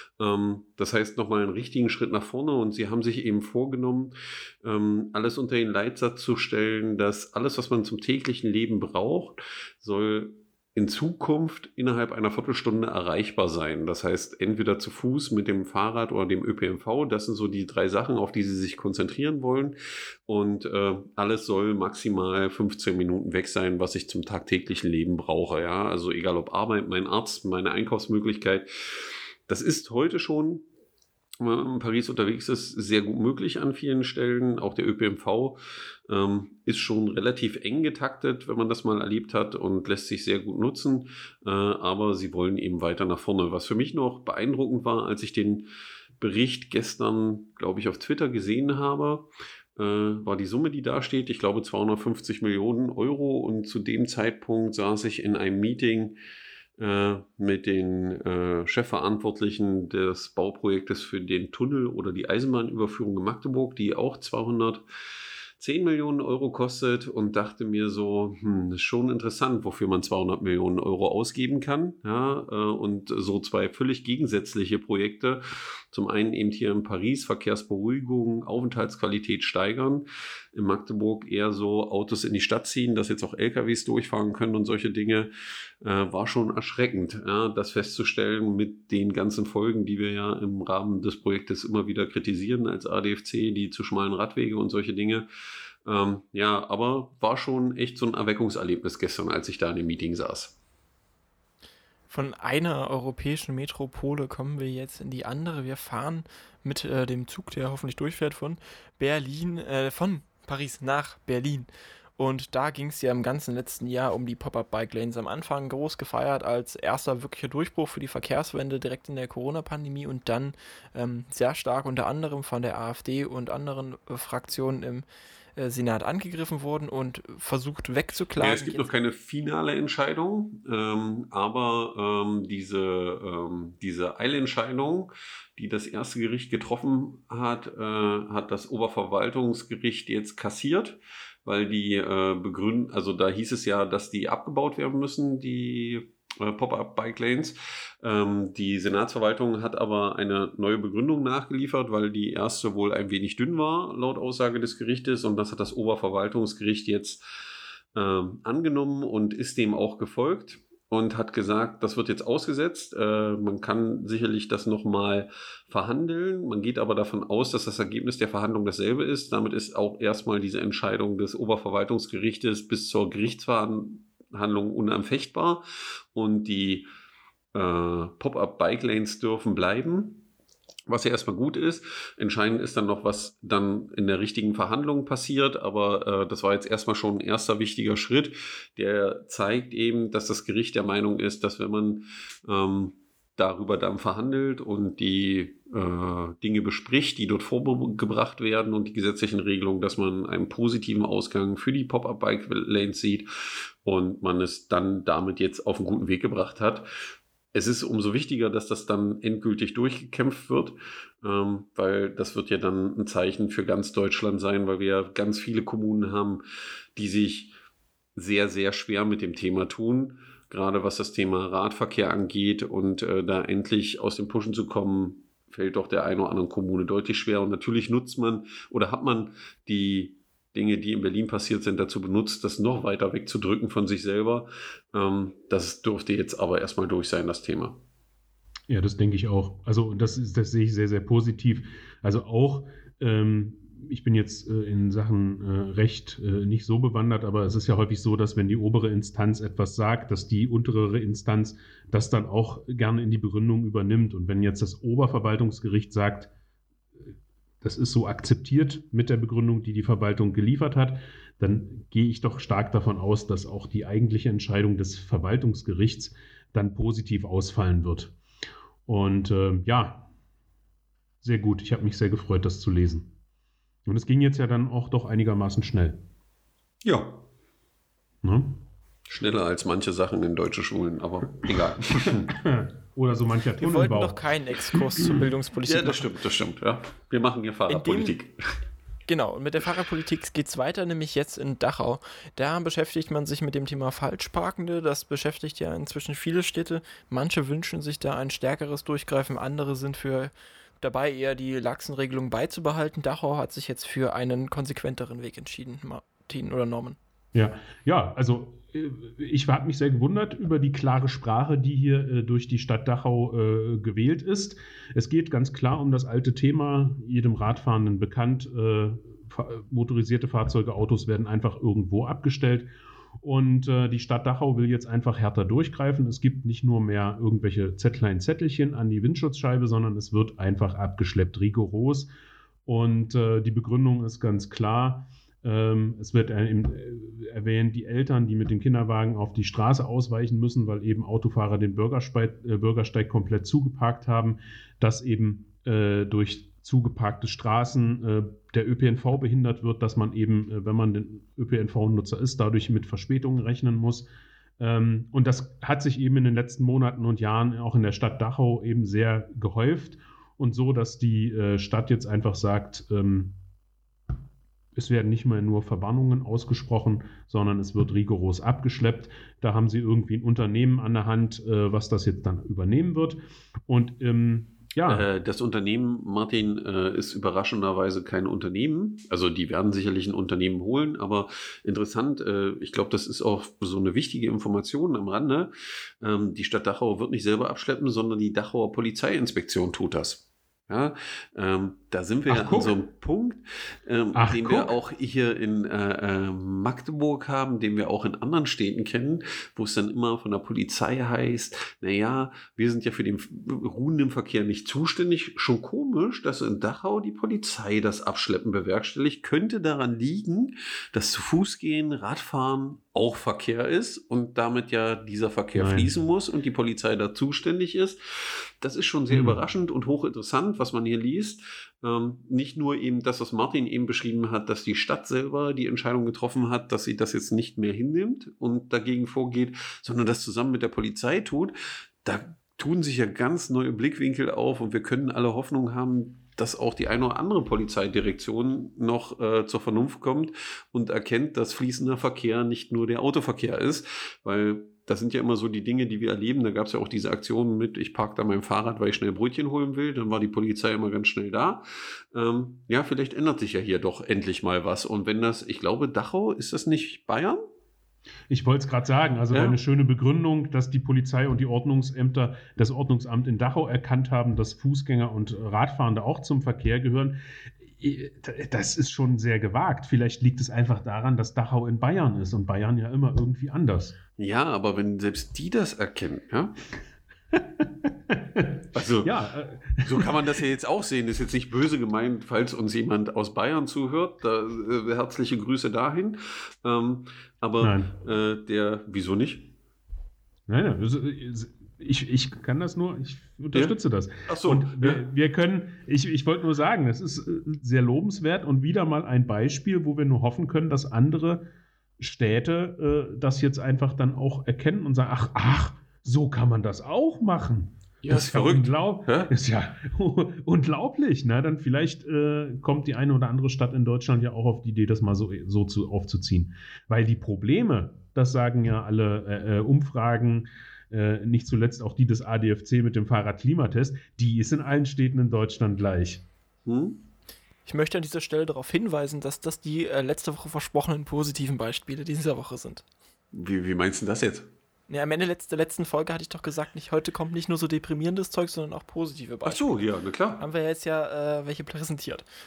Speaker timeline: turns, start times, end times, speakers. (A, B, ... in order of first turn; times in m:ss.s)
0:00.2-0:04.1 A
0:04.6-0:19.8 A
0:20.3-0:28.7 A
0:29.5-0:30.6 A
0:31.4-0:45.7 A
0:46.2-0:56.2 A
0:56.8-1:04.8 A
1:05.6-1:25.3 A
1:25.8-1:35.3 A
1:35.8-1:40.5 A
1:42.1-2:05.0 B
2:05.6-2:08.9 B
2:08.4-2:37.2 A
2:38.0-2:55.6 A
2:56.1-2:56.9 A
2:57.5-3:00.2 A
3:00.9-3:23.3 A
3:23.8-3:26.8 A
3:27.5-3:36.4 A
3:37.0-3:37.5 A
3:38.2-3:57.8 A
3:58.7-4:16.3 C
4:17.6-4:28.1 C
4:28.9-4:30.1 C
4:31.2-4:33.1 C
4:33.8-4:36.0 C
4:36.8-4:37.2 A
4:38.2-4:38.6 C
4:39.1-4:42.4 A
4:42.3-4:44.3 C
4:43.6-4:46.1 B
4:45.6-4:48.3 A
4:47.7-4:48.2 B
4:49.1-5:07.0 B
5:07.3-5:32.1 C
5:32.6-5:54.1 C
5:54.6-6:03.4 C
6:04.8-6:15.1 C
6:14.9-6:58.0 A
6:32.3-6:32.8 C
6:34.1-6:34.8 C
6:55.5-6:55.9 C
6:58.6-7:11.5 A
6:59.1-6:59.4 C
7:12.0-7:31.6 A
7:32.1-7:37.4 A
7:38.3-7:54.0 C
7:39.3-7:39.6 A
7:54.2-7:56.6 A
7:57.4-8:00.1 C
7:58.7-7:59.1 A
7:59.8-8:09.5 A
8:07.6-8:08.0 C
8:10.5-8:21.4 C
8:14.3-8:15.0 A
8:22.0-8:46.2 C
8:28.0-8:29.3 A
8:46.6-8:47.0 A
8:47.6-8:52.8 B
8:53.3-8:54.5 A
8:54.9-8:59.8 B
8:59.4-9:00.4 A
9:00.4-9:02.3 B